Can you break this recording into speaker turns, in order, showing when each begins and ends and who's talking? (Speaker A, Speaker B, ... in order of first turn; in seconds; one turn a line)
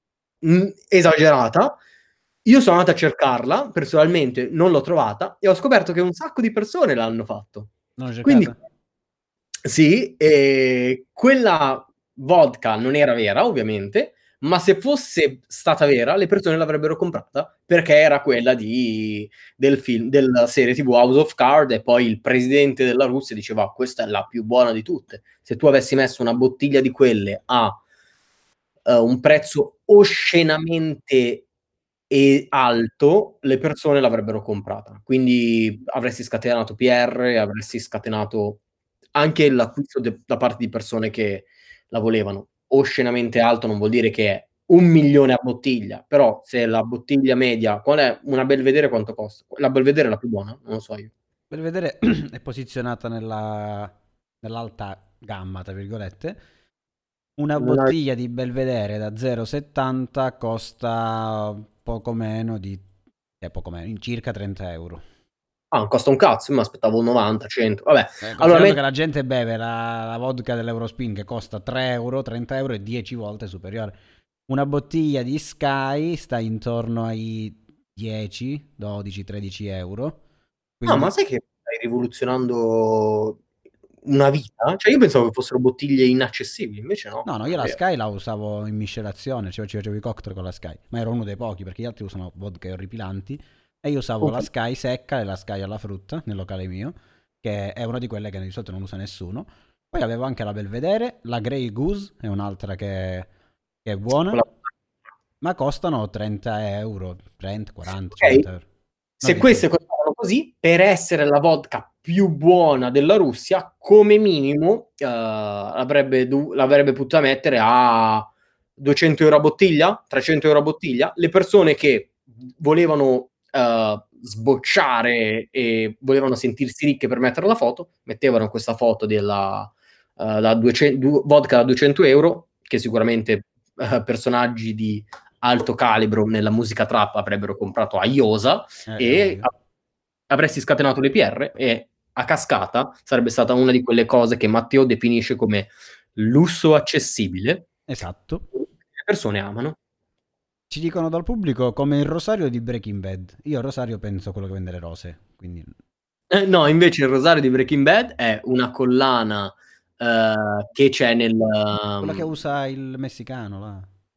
Speaker A: 0.4-1.8
Speaker A: 2.5-8.6
Speaker B: 8.0-8.6
Speaker A: 9.6-27.8
Speaker A: 28.9-31.4
Speaker A: 32.1-38.6
Speaker A: 39.1-51.1
Speaker B: 51.5-56.4
Speaker B: 57.4-62.8
Speaker A: 57.6-57.9
Speaker B: 63.4-65.0
Speaker A: 65.7-68.8
Speaker B: 68.2-73.9
Speaker B: 74.5-80.2
Speaker B: 80.8-81.1
Speaker A: 80.8-83.4
Speaker A: 84.0-87.8
Speaker B: 87.2-103.3
Speaker B: 103.8-104.4
Speaker B: 105.4-108.6
Speaker A: 108.1-108.4
Speaker B: 109.2-109.6
Speaker A: 109.2-139.5
Speaker B: 138.9-139.5
Speaker A: 140.3-147.7
Speaker B: 147.9-148.4
Speaker A: 148.5-149.8
Speaker B: 150.7-155.7
Speaker A: 156.3-162.3
Speaker B: 162.0-163.9